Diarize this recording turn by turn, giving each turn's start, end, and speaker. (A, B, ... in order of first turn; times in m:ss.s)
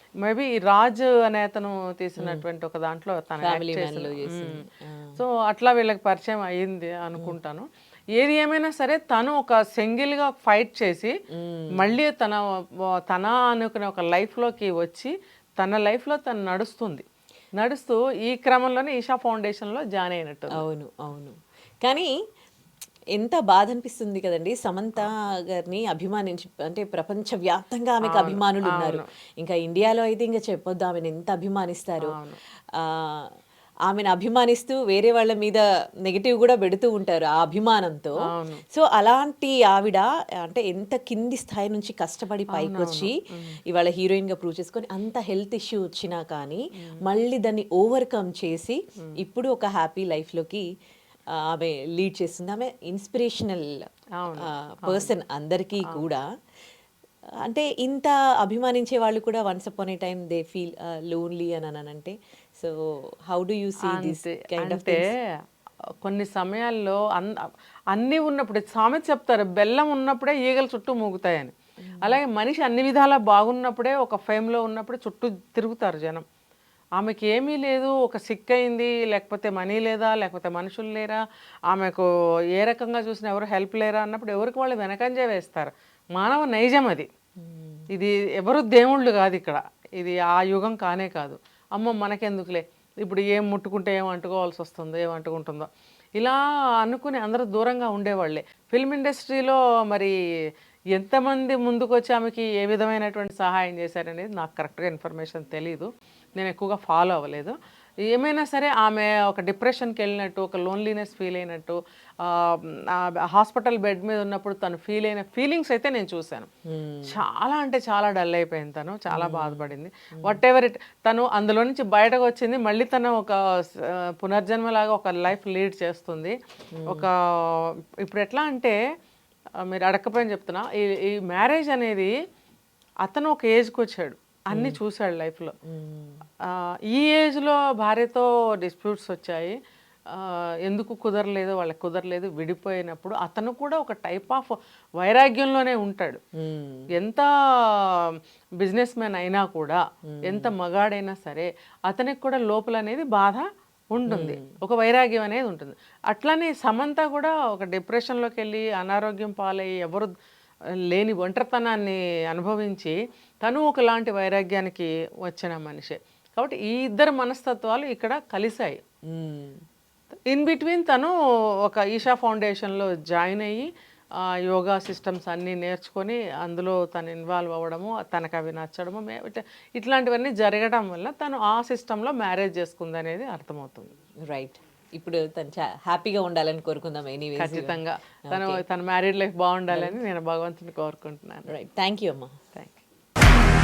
0:00.2-0:04.6 A
0:02.2-0:02.4 B
0:03.4-0:05.2 B
0:05.2-0:11.1 A
0:11.3-0:12.0 B
0:11.8-0:12.4 A
0:13.1-0:17.0 A
0:17.6-0:20.6 A
0:20.5-0:22.1 B
0:23.2-0:32.2 B
0:28.1-0:29.0 A
0:32.0-0:32.4 A
0:32.8-0:33.3 B
0:33.9-0:38.2 B
0:38.3-0:38.6 A
0:38.7-0:43.1 B
0:42.5-0:43.6 A
0:43.7-0:50.6 B
0:51.3-0:53.9 B
0:54.2-0:55.1 A
0:54.4-0:56.2 B
0:57.4-1:05.1 B
1:03.8-1:05.1 A
1:06.0-1:16.2 A
1:11.8-1:12.2 B
1:17.0-1:27.1 A
1:27.4-1:27.8 B
1:27.9-1:40.1 A
1:40.9-1:47.6 A
1:48.1-1:56.5 A
1:56.6-1:57.2 B
1:57.1-2:06.4 A
1:59.1-2:00.4 B
2:06.8-2:07.1 B
2:06.9-2:08.8 A
2:09.6-2:12.1 A
2:13.0-2:15.5 A
2:14.5-2:14.8 B
2:15.6-2:16.2 B
2:16.4-2:19.6 A
2:20.1-2:26.2 A
2:26.4-2:26.9 B
2:26.9-2:40.1 A
2:30.1-2:30.5 B
2:34.0-2:34.5 B
2:40.9-2:48.8 A
2:49.1-2:49.6 B
2:50.3-2:51.1 A
2:51.6-2:53.7 A
2:54.4-3:03.9 A
3:04.3-3:08.6 B
3:07.4-3:11.5 A
3:09.7-3:10.0 B
3:11.5-3:12.3 B
3:12.5-3:12.8 A